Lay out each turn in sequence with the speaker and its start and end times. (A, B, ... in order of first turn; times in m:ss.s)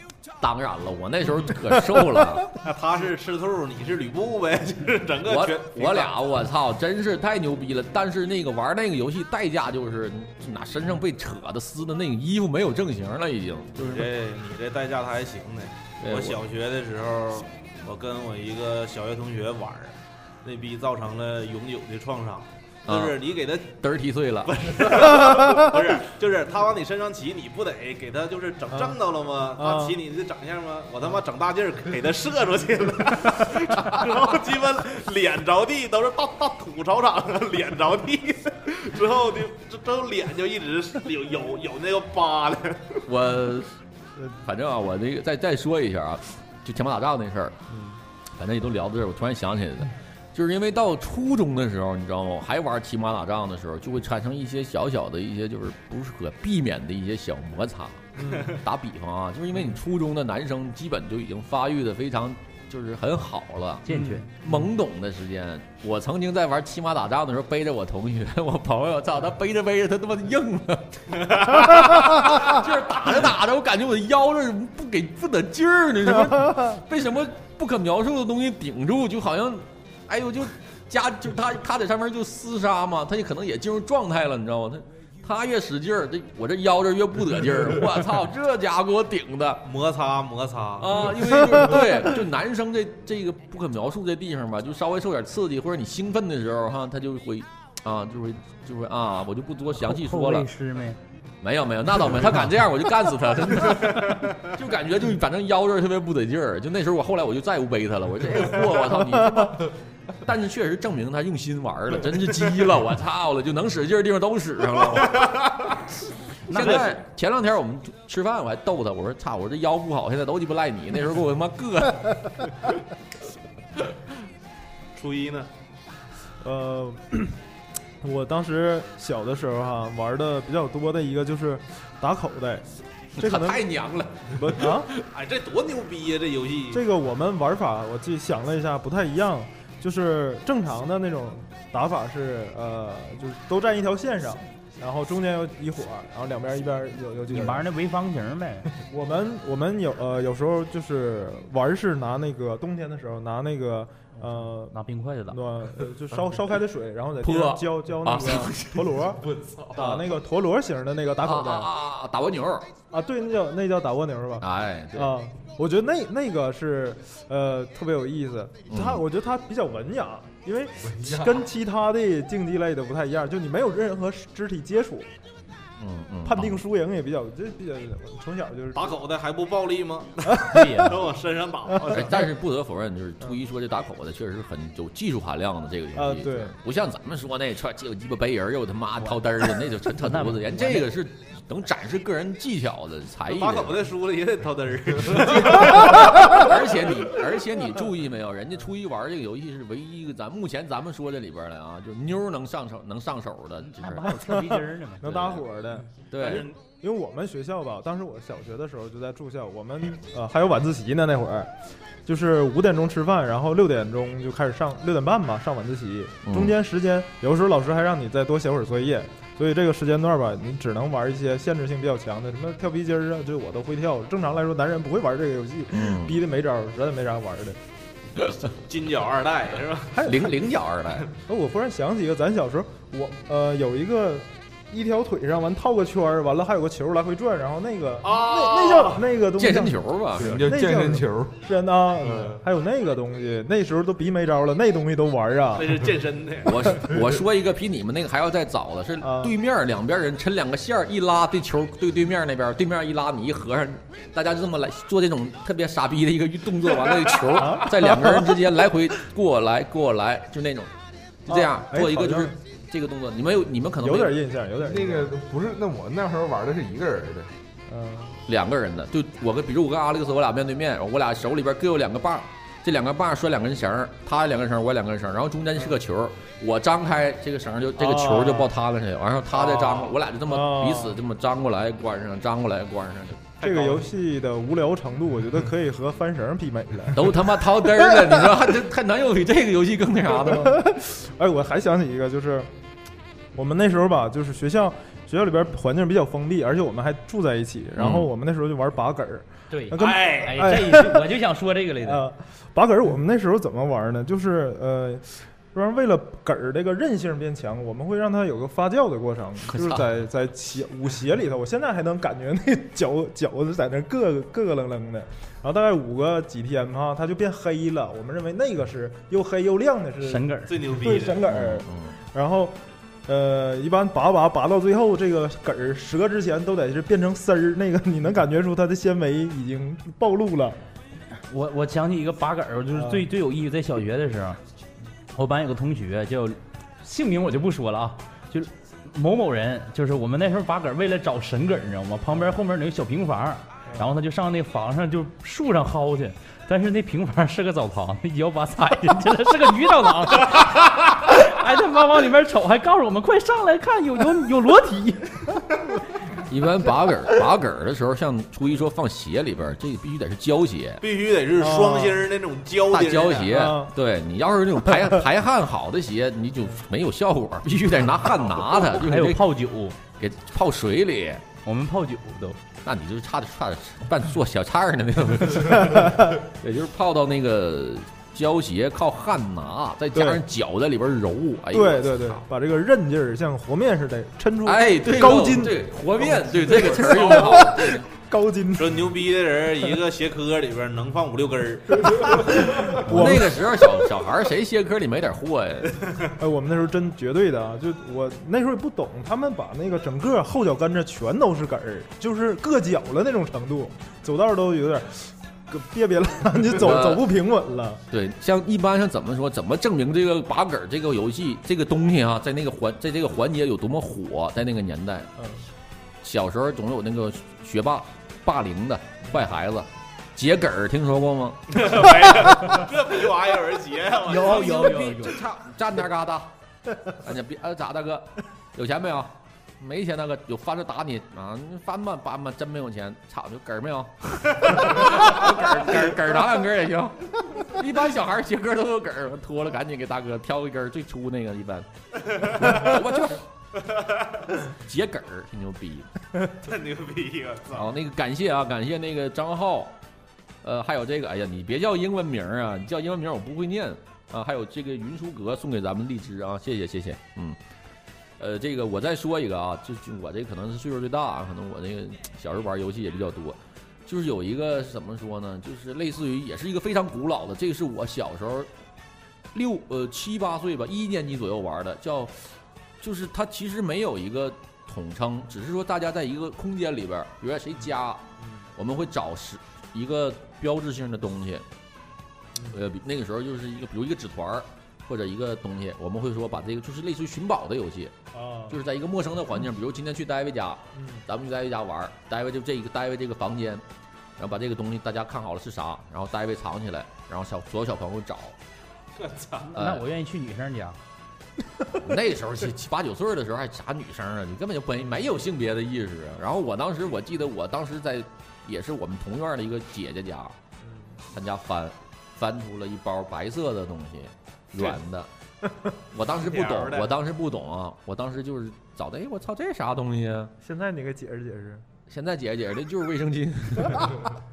0:00.4-0:02.5 A
0:02.6-0:06.2 B
0:05.2-0:14.1 A
0:13.8-0:23.8 B
0:16.0-0:16.4 A
0:22.9-0:23.2 A
0:23.7-0:25.1 A
0:24.4-0:43.0 B
0:25.3-0:25.7 C
0:29.6-0:29.9 C
0:33.8-0:34.2 A
0:43.0-0:43.7 A
0:44.3-0:47.6 A
0:48.4-1:29.7 A
0:58.2-0:58.5 C
1:03.8-1:04.2 D
1:03.9-1:04.6 C
1:29.6-1:31.1 B
1:30.8-1:40.5 A
1:39.8-1:41.0 D
1:41.4-1:49.7 A
1:50.2-1:55.7 A
1:55.1-1:55.7 B
1:56.5-2:02.5 A
1:56.5-1:56.8 D
1:56.5-1:56.9 B
2:04.9-2:05.5 B
2:06.4-2:07.4 C
2:08.0-2:12.6 C
2:13.2-2:13.6 C
2:13.2-2:15.0 A
2:14.4-2:14.9 C
2:15.0-2:16.8 B
2:16.7-2:27.7 C
2:27.3-2:28.7 D
2:28.8-2:34.7 C
2:34.7-2:35.4 D
2:35.3-2:41.7 C
2:37.2-2:39.1 A
2:39.7-2:40.1 A
2:41.2-2:42.7 A
2:42.9-2:55.1 C
2:44.4-2:45.2 A
2:48.7-2:49.0 A
2:50.9-2:51.4 E
2:55.8-2:56.6 A
2:56.2-2:58.9 C
2:58.7-3:02.3 B
3:00.2-3:00.7 C
3:00.4-3:01.0 D
3:01.7-3:02.1 C
3:01.9-3:13.8 A
3:06.0-3:06.5 C
3:09.9-3:10.9 D
3:13.3-3:16.5 B
3:15.2-3:24.2 A
3:23.7-3:25.0 D
3:24.2-3:31.5 C
3:25.0-3:25.4 A
3:26.1-3:26.5 A
3:26.2-3:26.5 B
3:32.0-3:47.6 C
3:36.2-3:36.6 A
3:45.7-3:46.2 A
3:48.5-3:50.1 B
3:49.9-3:50.3 C
3:50.0-3:51.1 A
3:51.3-4:05.8 C
3:58.0-3:59.0 B
3:59.4-4:00.5 A
4:00.1-4:01.4 E
4:02.0-4:02.3 B
4:05.5-4:06.6 B
4:06.4-4:20.7 A
4:09.0-4:09.3 C
4:17.3-4:18.3 C
4:21.2-4:24.2 A
4:21.3-4:22.3 C
4:23.8-4:25.1 C
4:24.6-4:27.3 E
4:27.7-4:28.2 C
4:28.3-4:43.4 A
4:37.8-4:38.5 C
4:39.5-4:39.8 B
4:40.3-4:41.0 C
4:43.4-4:43.9 B
4:43.4-4:48.2 C
4:46.9-4:50.6 A
4:50.2-4:52.5 C
4:53.3-5:01.1 C
4:57.8-4:58.1 A
4:59.5-5:02.0 D
4:59.8-5:00.5 B
5:01.8-5:30.6 C
5:09.5-5:09.8 A
5:20.0-5:20.6 D
5:20.5-5:21.2 B
5:21.2-5:21.9 A
5:31.3-5:34.4 D
5:32.7-5:33.0 C
5:35.1-5:55.2 D
5:56.2-6:00.8 A
6:00.8-6:03.4 B
6:01.4-6:02.0 C
6:02.7-6:09.2 A
6:03.3-6:03.7 C
6:08.7-6:09.8 D
6:10.0-6:11.2 A
6:11.4-6:12.4 D
6:12.6-6:22.2 A
6:15.7-6:16.1 C
6:19.9-6:20.2 C
6:21.5-6:28.9 C
6:24.4-6:27.8 A
6:26.9-6:27.4 B
6:28.6-6:32.4 B
6:31.7-6:33.4 C
6:32.6-6:35.8 A
6:36.2-6:47.8 C
6:46.6-6:47.0 A
6:47.9-6:55.1 A
6:55.2-6:55.4 C
6:56.0-7:01.7 A
7:01.5-7:05.0 B
7:04.0-7:05.2 D
7:04.2-7:06.3 A
7:06.9-7:21.7 A
7:22.1-7:22.5 B
7:22.2-7:23.2 A
7:23.6-7:24.3 B
7:24.5-7:25.9 A
7:26.4-7:27.7 B
7:27.5-7:29.7 A
7:30.4-7:37.4 A
7:38.2-7:48.5 A
7:49.3-7:58.0 A
7:58.6-8:01.4 A
8:02.5-8:07.9 A
8:08.1-8:08.6 C
8:08.5-8:13.6 A
8:10.8-8:11.0 C
8:14.2-8:18.4 A
8:19.0-8:19.5 B
8:19.4-8:20.8 D
8:19.5-8:19.8 A
8:21.7-8:30.4 A
8:31.1-8:35.1 A
8:35.9-8:40.3 A
8:36.1-8:36.9 B
8:40.4-8:41.6 C
8:41.9-8:44.1 A